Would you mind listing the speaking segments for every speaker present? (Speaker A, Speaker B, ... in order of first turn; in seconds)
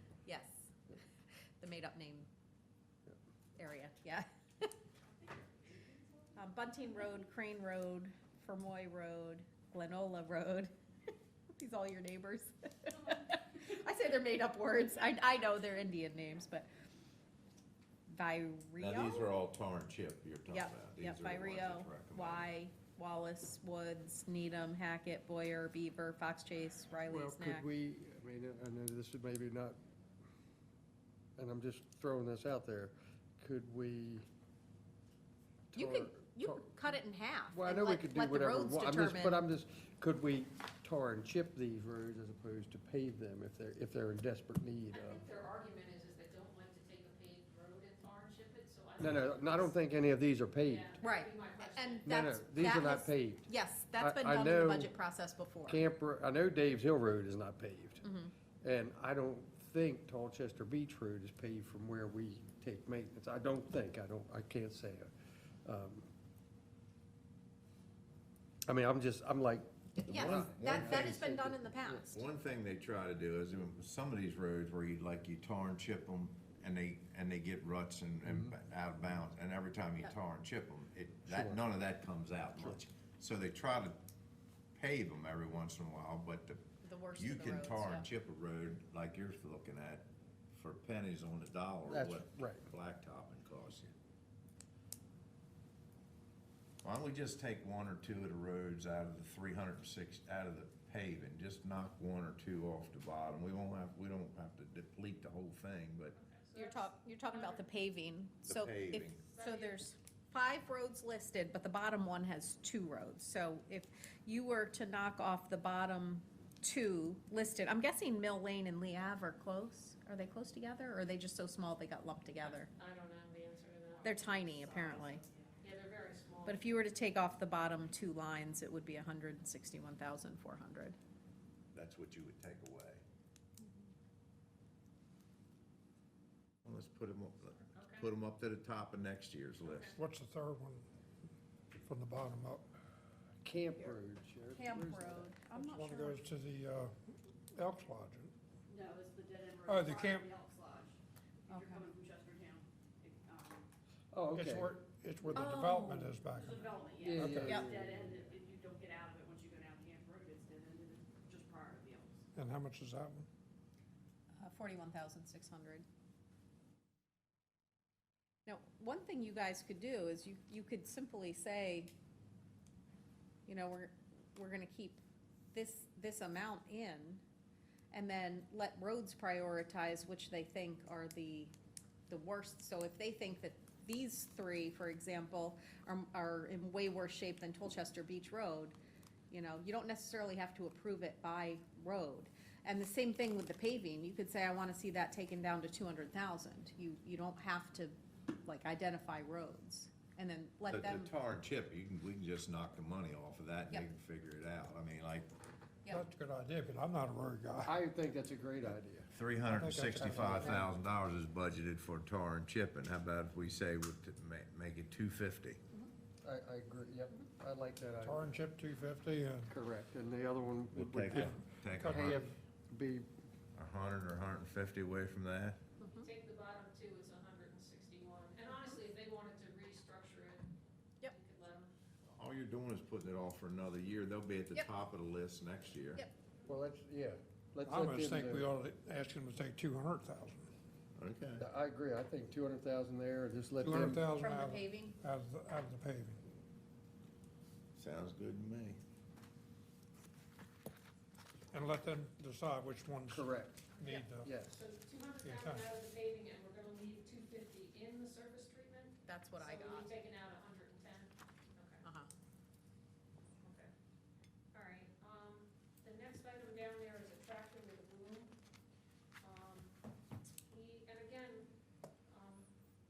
Speaker A: 0.2-0.7, 1.6-2.3, 3.6-4.7, 6.3-10.7, 11.5-16.7, 18.1-19.2, 20.5-27.7, 35.7-39.4, 51.0-55.8, 58.0-58.3, 70.0-72.2, 86.8-88.0, 106.5-122.7, 124.0-125.2, 126.5-131.0, 144.5-146.2, 151.5-151.8, 155.3-156.1, 164.4-165.8, 168.4-171.9, 173.5-175.0, 175.5-177.2, 177.9-181.5, 182.1-188.8, 189.3-201.1, 225.8-226.1, 244.2-245.0, 259.1-259.9, 261.8-262.1
Speaker B: 5.2-6.3, 124.5-125.5, 148.7-153.7, 156.3-162.2
Speaker C: 18.8-22.5, 70.0-71.2, 72.1-84.0, 84.8-86.6, 87.2-93.9, 96.8-106.2, 108.5-109.2, 131.7-133.0, 136.6-139.9, 200.7-205.3, 209.1-215.6, 220.8-222.2, 223.5-225.6, 232.1-236.0, 241.0-241.4, 247.8-248.8
Speaker D: 27.1-29.8, 31.4-34.2, 35.7-36.7, 37.5-45.2, 49.0-51.0, 52.0-54.9, 55.6-58.0, 58.6-65.1, 65.7-66.1, 68.7-72.1, 78.3-78.5, 81.3-81.6, 91.9-92.7, 143.4-145.4, 154.1-154.7, 157.0-158.1, 207.6-209.1, 216.2-218.3, 219.5-223.1, 236.5-238.5, 241.4-244.0, 253.1-253.7, 254.2-254.6
Speaker E: 44.9-49.7, 50.6-52.2, 106.2-107.6, 109.3-109.8, 122.5-124.4, 125.6-126.6, 137.8-138.1, 139.7-139.9, 225.9-230.5, 231.0-231.7, 253.7-261.8, 263.4-263.7, 264.5-268.3, 269.2-269.8, 270.5-271.5, 272.1-272.5
Speaker F: 140.0-140.8, 141.8-142.6, 145.5-146.9, 147.5-148.3, 149.7-150.3, 154.3-157.6, 162.3-163.3, 205.9-207.8, 209.5-210.7, 218.0-219.5, 221.1-222.3, 237.6-240.5, 243.6-246.2, 251.5-254.4, 255.2-255.7